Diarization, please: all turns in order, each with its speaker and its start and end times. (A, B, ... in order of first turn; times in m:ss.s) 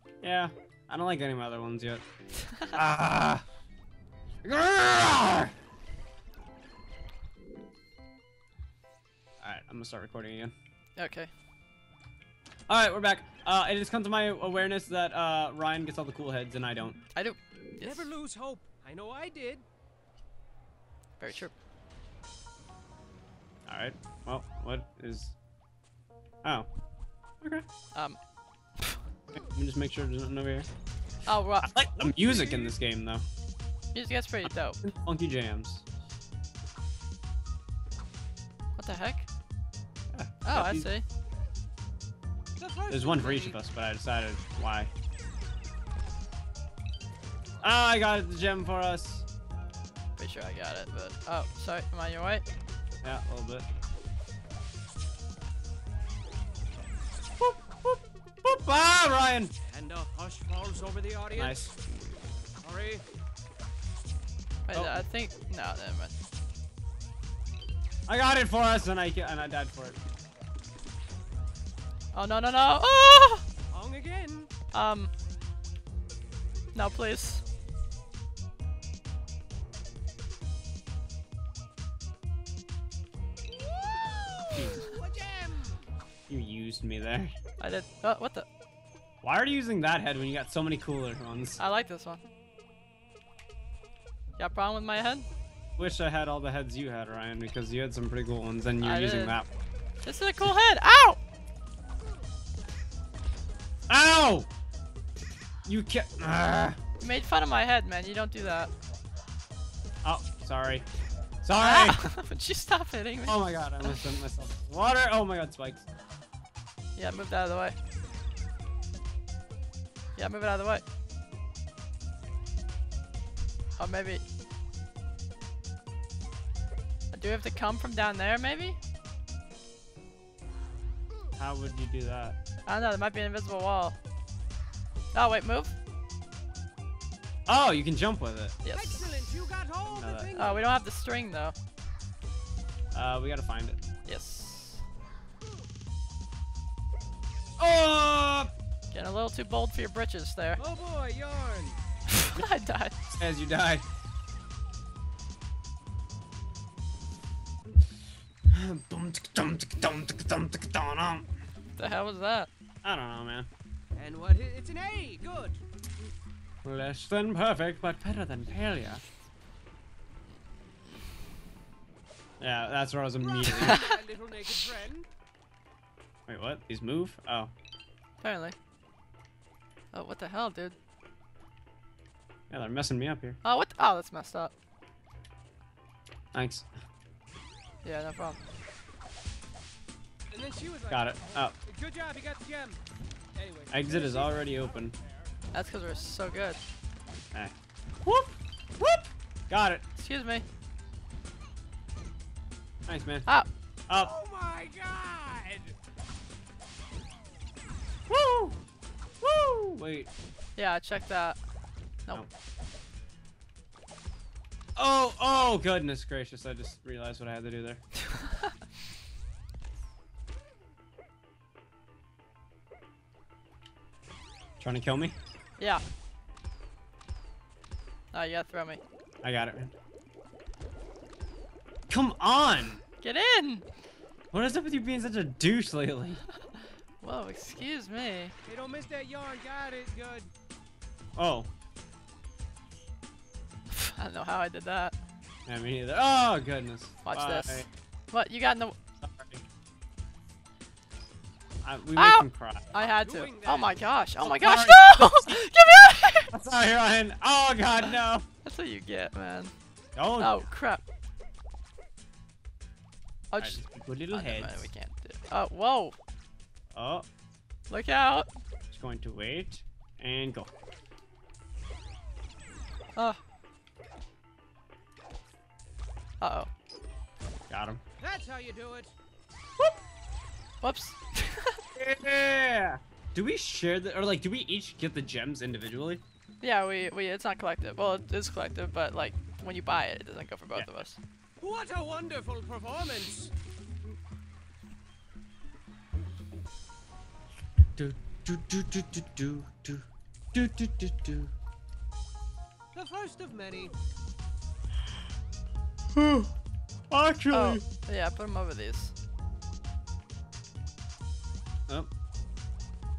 0:00.2-0:02.0 A
0:02.7-0:03.4 A
0:04.4-0:05.5 A
0:09.4-0:10.5 A
0:11.0-0:11.3 B
0:12.7-0:17.0 A
0:17.1-0:18.1 B
0:17.8-0:19.6 C
0:21.2-0:21.5 B
0:23.7-0:25.3 A
0:29.3-0:30.7 A
0:31.2-0:31.7 B
0:31.6-0:33.2 A
0:31.9-0:32.8 C
0:33.9-0:34.8 B
0:34.4-0:35.8 A
0:38.8-0:39.2 B
0:40.1-0:40.9 A
0:40.4-0:41.0 B
0:42.6-0:43.6 C
0:42.9-0:44.9 A
0:47.6-0:49.2 A
0:50.2-0:52.4 B
0:53.0-0:53.6 A
0:57.4-0:59.5 A
0:59.7-1:01.7 C
1:01.3-1:01.7 A
1:02.6-1:03.0 C
1:04.7-1:06.1 B
1:04.7-1:05.0 A
1:08.1-1:10.0 A
1:12.1-1:13.4 B
1:13.7-1:14.5 C
1:14.7-1:15.1 B
1:16.7-1:17.4 B
1:23.5-1:25.9 C
1:24.5-1:24.8 A
1:26.3-1:27.3 A
1:27.6-1:28.5 B
1:29.2-1:31.6 A
1:31.6-1:32.2 B
1:34.4-1:35.3 B
1:35.8-1:39.5 A
1:38.8-1:39.4 B
1:40.0-1:41.2 B
1:43.9-1:44.5 A
1:45.6-1:46.8 A
1:47.0-1:48.7 B
1:50.0-1:50.8 A
1:51.4-1:52.1 A
1:51.5-1:54.0 B
1:53.2-1:55.8 A
1:57.0-1:57.8 B
2:00.2-2:00.8 B
2:03.8-2:04.2 B
2:07.1-2:08.8 B
2:11.4-2:12.4 A
2:12.6-2:14.0 B
2:15.1-2:15.7 B
2:17.5-2:18.6 A
2:18.6-2:19.2 B
2:18.7-2:20.7 C
2:20.0-2:20.4 A
2:20.3-2:21.5 B
2:22.9-2:23.8 A
2:24.0-2:24.8 B
2:27.6-2:28.5 A
2:28.9-2:30.6 B
2:30.6-2:31.8 C
2:32.2-2:33.0 B
2:33.1-2:33.8 A
2:38.5-2:41.3 A
2:41.8-2:42.5 B
2:42.8-2:43.5 A
2:43.9-2:45.6 C
2:46.6-2:49.0 A
2:52.4-2:53.8 A
2:53.4-2:54.0 B
2:53.4-2:55.1 C
2:56.3-2:57.5 A
2:58.2-2:58.5 B
2:59.9-3:00.7 B
3:02.5-3:03.4 A
3:03.4-3:04.5 B
3:06.3-3:06.7 A
3:07.8-3:08.4 B
3:10.3-3:12.8 C
3:10.9-3:11.6 A
3:13.3-3:15.3 C
3:13.7-3:15.0 A
3:15.5-3:16.6 B
3:17.3-3:19.8 A
3:20.0-3:20.4 B
3:22.9-3:23.3 A
3:23.9-3:24.1 A
3:23.9-3:25.7 C
3:28.1-3:28.6 A
3:29.2-3:30.1 A
3:30.6-3:31.4 B
3:34.8-3:37.8 A
3:38.2-3:38.5 B
3:44.6-3:45.2 A
3:48.1-3:48.8 B
3:49.2-3:49.7 A
3:51.9-3:52.8 A
3:53.0-3:53.6 B
3:54.3-3:56.2 A
3:57.0-3:58.3 B
3:58.4-4:00.3 C
4:01.2-4:01.5 A
4:03.7-4:04.9 B
4:05.5-4:07.7 A
4:07.0-4:08.8 B
4:09.0-4:09.4 A
4:11.6-4:12.7 A
4:12.0-4:16.3 B
4:12.7-4:13.8 C
4:14.2-4:15.4 A
4:16.3-4:18.2 A
4:18.4-4:19.5 B
4:20.0-4:20.4 A
4:20.2-4:20.8 B
4:23.3-4:25.9 B
4:23.4-4:24.7 A
4:26.7-4:27.0 A
4:27.7-4:28.3 B
4:28.7-4:30.5 A
4:36.2-4:36.5 B
4:37.5-4:37.8 A
4:38.0-4:38.9 C
4:40.6-4:41.6 B
4:41.8-4:46.0 A
4:46.4-4:51.0 B
4:51.4-4:53.3 C
4:57.8-5:01.3 A
5:02.7-5:03.7 C
5:05.9-5:06.3 A
5:06.9-5:07.6 A
5:07.3-5:08.9 B